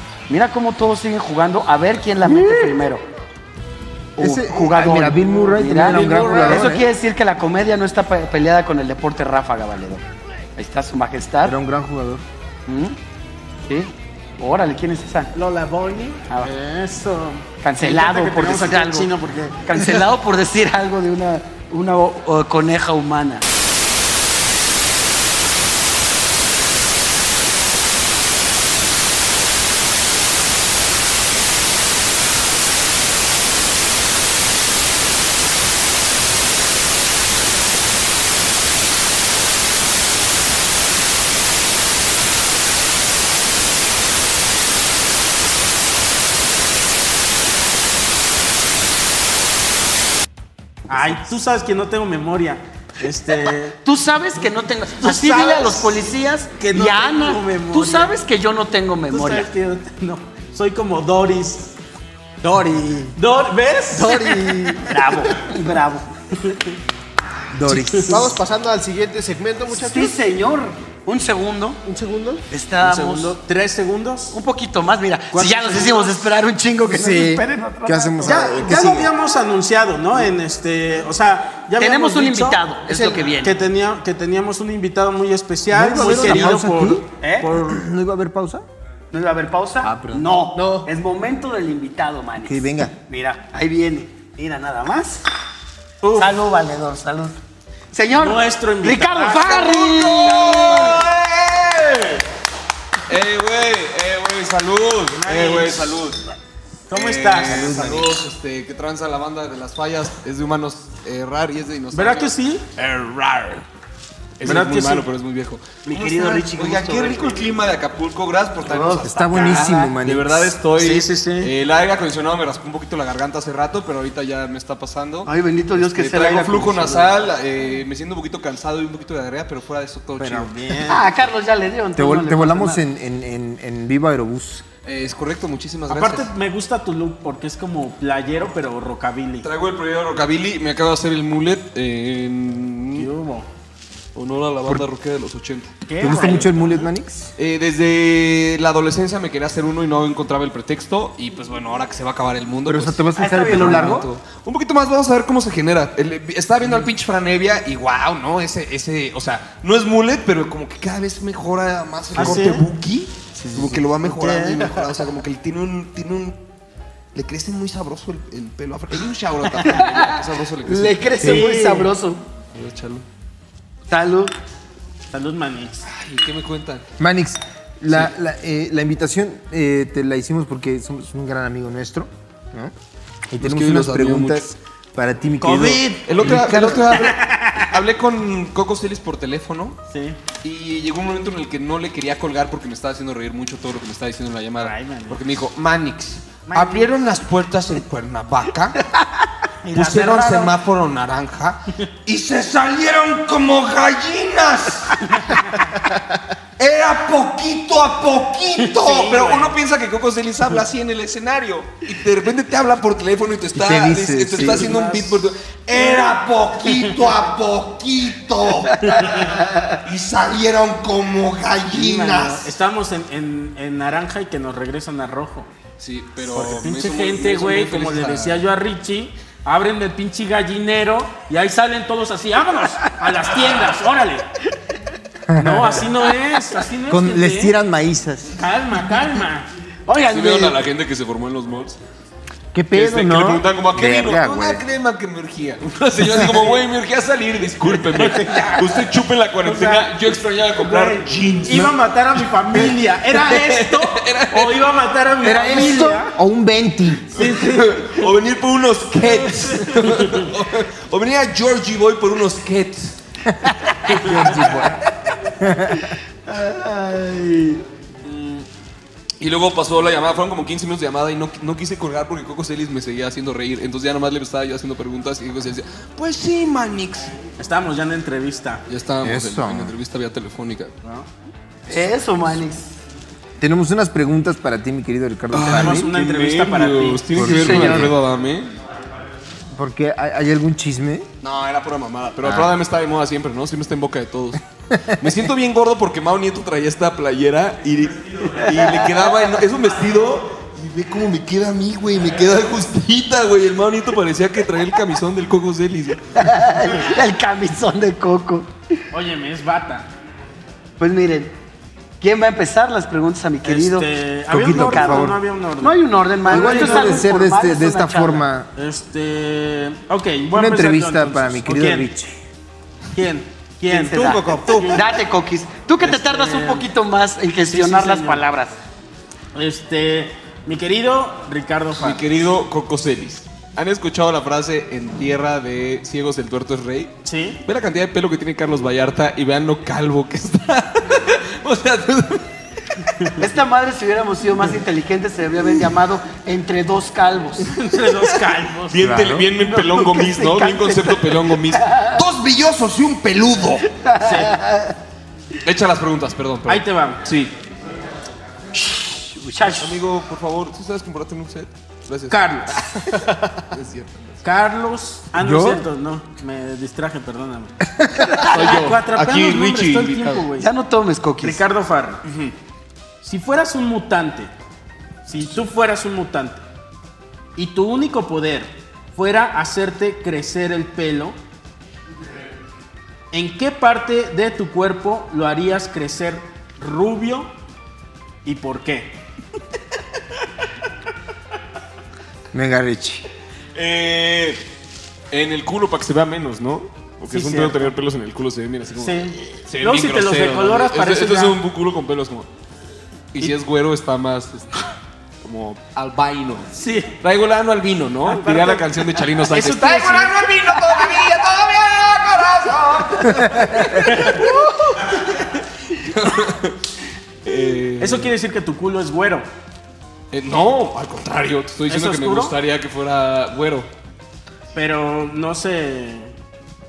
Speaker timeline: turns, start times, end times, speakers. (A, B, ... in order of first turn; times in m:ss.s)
0:00.3-0:03.0 A
0:02.2-0:02.7 B
0:04.2-0:06.9 B
0:04.2-0:10.0 A
0:05.7-0:06.8 C
0:10.6-0:11.6 A
0:11.4-0:12.2 B
0:12.7-0:13.0 A
0:13.7-0:15.3 A
0:15.4-0:19.9 C
0:17.6-0:19.1 A
0:19.6-0:23.4 A
0:50.9-0:53.8 C
0:53.8-0:59.5 A
0:55.0-0:58.2 C
0:59.1-1:01.7 C
1:02.4-1:05.2 C
1:04.0-1:06.0 A
1:06.4-1:06.8 C
1:07.5-1:08.3 B
1:07.7-1:08.2 C
1:08.1-1:10.2 D
1:09.7-1:11.8 A
1:11.8-1:12.4 D
1:12.5-1:13.4 A
1:12.8-1:14.4 C
1:14.3-1:18.7 A
1:15.3-1:16.1 C
1:16.9-1:19.1 B
1:18.2-1:27.8 C
1:21.8-1:23.6 A
1:25.7-1:27.0 B
1:26.0-1:26.5 A
1:27.2-1:27.5 A
1:27.5-1:28.6 B
1:29.1-1:35.2 A
1:29.8-1:30.8 B
1:32.4-1:32.9 B
1:36.0-1:36.3 C
1:36.1-1:37.4 A
1:37.9-1:41.0 A
1:38.1-1:39.7 C
1:39.3-1:42.2 E
1:43.1-1:46.2 E
1:45.2-1:45.8 C
1:46.9-1:48.2 C
1:46.9-1:53.6 E
1:47.5-1:48.1 B
1:51.9-1:52.6 C
1:54.4-2:10.5 E
1:54.4-1:55.1 C
1:55.8-1:57.4 A
1:58.6-1:59.6 A
1:59.0-2:00.6 B
2:00.8-2:01.5 C
2:05.2-2:07.1 A
2:10.2-2:11.1 C
2:10.8-2:12.8 A
2:12.0-2:14.6 B
2:14.8-2:16.3 E
2:15.9-2:19.5 C
2:19.4-2:23.1 E
2:22.9-2:23.5 C
2:24.1-2:25.7 E
2:25.8-2:26.8 C
2:26.0-2:27.3 B
2:27.4-2:46.4 E
2:32.6-2:34.1 B
2:33.1-2:34.0 A
2:42.1-2:42.6 C
2:43.4-2:44.5 A
2:47.1-2:51.0 E
2:49.6-2:52.2 A
2:51.2-2:51.9 C
2:52.5-2:53.0 E
2:53.9-2:54.3 A
2:55.1-2:55.9 C
2:55.8-2:56.9 E
2:57.0-3:02.7 B
3:03.3-3:06.9 B
3:03.4-3:04.5 E
3:05.4-3:07.7 C
3:06.0-3:09.8 E
3:09.9-3:10.2 C
3:10.4-3:18.8 E
3:14.6-3:15.2 C
3:16.5-3:16.9 C
3:19.6-3:20.5 A
3:19.7-3:25.0 E
3:26.6-3:42.5 E
3:28.6-3:29.5 C
3:33.5-3:34.7 B
3:34.3-3:35.2 C
3:41.7-3:45.5 C
3:45.8-3:48.4 E
3:46.2-3:54.3 C
3:55.3-3:55.9 B
3:55.4-3:57.5 C
3:56.9-3:58.3 B
3:58.4-4:00.6 C
4:00.0-4:01.8 E
4:02.5-4:04.6 B
4:02.7-4:14.7 E
4:07.9-4:08.8 C
4:09.4-4:10.0 C
4:10.6-4:16.1 C
4:15.2-4:17.2 B
4:17.1-4:18.1 C
4:17.1-4:23.0 E
4:19.7-4:20.2 C
4:23.9-4:24.8 B
4:23.9-4:24.7 E
4:25.4-4:25.9 B
4:26.3-4:27.6 A
4:28.0-4:28.4 E
4:29.2-4:37.1 E
4:37.4-4:38.6 C
4:38.7-4:40.7 E
4:39.0-4:39.7 B
4:41.7-4:42.7 A
4:43.4-4:45.9 B
4:45.3-4:48.5 E
4:45.4-4:47.8 C
4:47.1-4:48.0 B
4:49.5-4:51.1 B
4:51.2-5:06.0 E
4:52.2-4:52.6 B
4:54.7-4:55.0 B
4:58.3-4:59.3 A
5:06.2-5:08.5 A
5:08.9-5:09.9 C
5:10.8-5:11.3 A
5:12.0-5:13.9 A
5:13.4-5:17.0 C
5:14.3-5:15.2 B
5:14.5-5:18.2 A
5:16.3-5:18.5 B
5:18.6-5:21.9 C
5:20.3-5:22.2 B
5:22.9-5:24.8 C
5:23.7-5:28.6 A
5:23.9-5:24.8 D
5:25.8-5:26.7 C
5:27.5-5:28.2 C
5:29.3-5:32.0 C
5:31.7-5:42.3 E
5:37.0-5:37.4 C
5:43.2-5:47.5 A
5:47.4-5:48.8 C
5:48.7-5:53.6 E
5:48.8-5:49.3 B
5:49.4-5:52.0 A
5:53.7-5:54.7 A
5:54.0-5:54.4 C
5:55.4-5:57.3 E
5:56.4-5:57.0 C
5:58.9-5:59.7 A
5:59.4-6:04.2 E
6:02.1-6:02.6 C
6:04.2-6:07.6 C
6:05.2-6:05.6 B
6:08.2-6:10.5 C
6:08.2-6:10.2 E
6:10.4-6:11.4 A
6:11.2-6:12.0 C
6:12.1-6:12.3 E
6:13.0-6:14.3 C
6:15.0-6:16.4 C
6:17.4-6:21.2 C
6:23.1-6:27.3 C
6:28.2-6:29.0 C
6:32.3-6:33.0 B
6:33.5-6:34.4 E
6:35.1-6:42.3 E
6:37.1-6:37.7 C
6:38.8-6:41.4 C
6:43.1-6:44.7 E
6:45.2-6:56.6 E
6:46.6-6:47.0 C
6:48.0-6:50.8 C
6:53.3-6:53.6 B
6:53.8-6:54.5 C
6:57.2-6:58.1 E
6:57.8-6:59.3 C
7:00.1-7:03.7 E
7:01.7-7:02.3 C
7:04.5-7:06.1 C